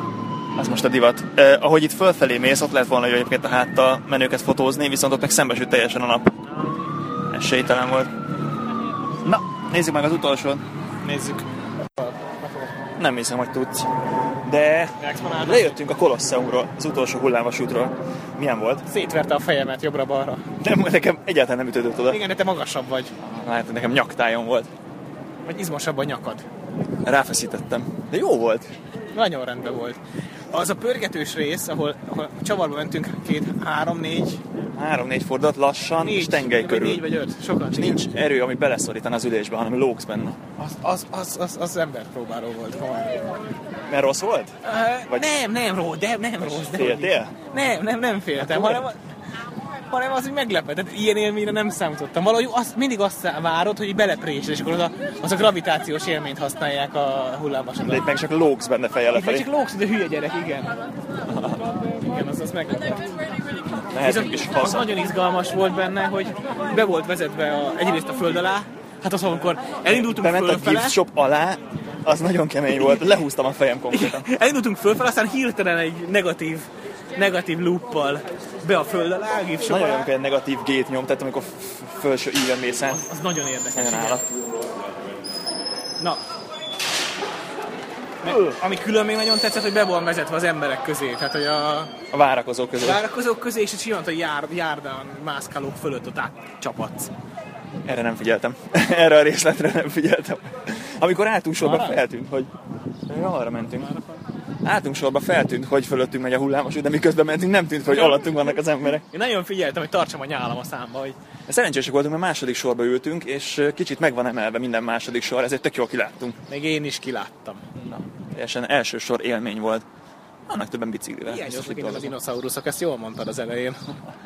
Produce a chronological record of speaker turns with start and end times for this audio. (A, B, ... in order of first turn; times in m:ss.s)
0:00.6-0:06.3 A
0:07.3-0:08.1 A
0:09.2-0:10.6 A
0:11.0-0:11.4 B
0:12.0-0:12.7 B
0:13.0-0:13.9 A
0:14.4-0:18.8 A
0:15.0-0:15.7 B
0:18.9-0:20.4 B
0:20.6-0:22.2 A
0:22.1-0:23.1 B
0:23.2-0:24.7 A
0:25.4-0:26.4 B
0:27.0-0:28.7 A
0:29.1-0:30.0 B
0:30.5-0:34.4 B
0:34.7-0:37.0 A
0:36.0-0:38.0 B
0:37.7-0:40.4 A
0:40.6-0:43.1 B
0:43.9-0:44.5 A
0:44.6-0:49.0 B
0:46.4-0:47.3 A
0:48.4-0:48.8 A
0:49.9-0:58.1 B
0:57.9-0:59.4 A
0:59.1-1:00.7 B
1:01.2-1:01.6 A
1:02.1-1:03.0 B
1:03.9-1:04.9 A
1:04.0-1:11.0 B
1:09.9-1:14.3 A
1:13.9-1:20.0 B
1:19.6-1:23.0 A
1:23.0-1:24.2 B
1:23.7-1:24.2 A
1:28.2-1:31.9 B
1:28.3-1:28.5 A
1:32.1-1:33.0 A
1:32.8-1:37.1 B
1:37.8-1:42.5 A
1:41.6-1:42.0 B
1:43.1-1:43.9 A
1:43.8-1:44.2 B
1:44.6-1:49.0 A
1:49.1-1:51.2 B
1:51.5-1:56.4 A
1:56.5-1:57.6 B
1:57.8-1:59.8 A
2:00.5-2:02.1 A
2:01.3-2:03.8 B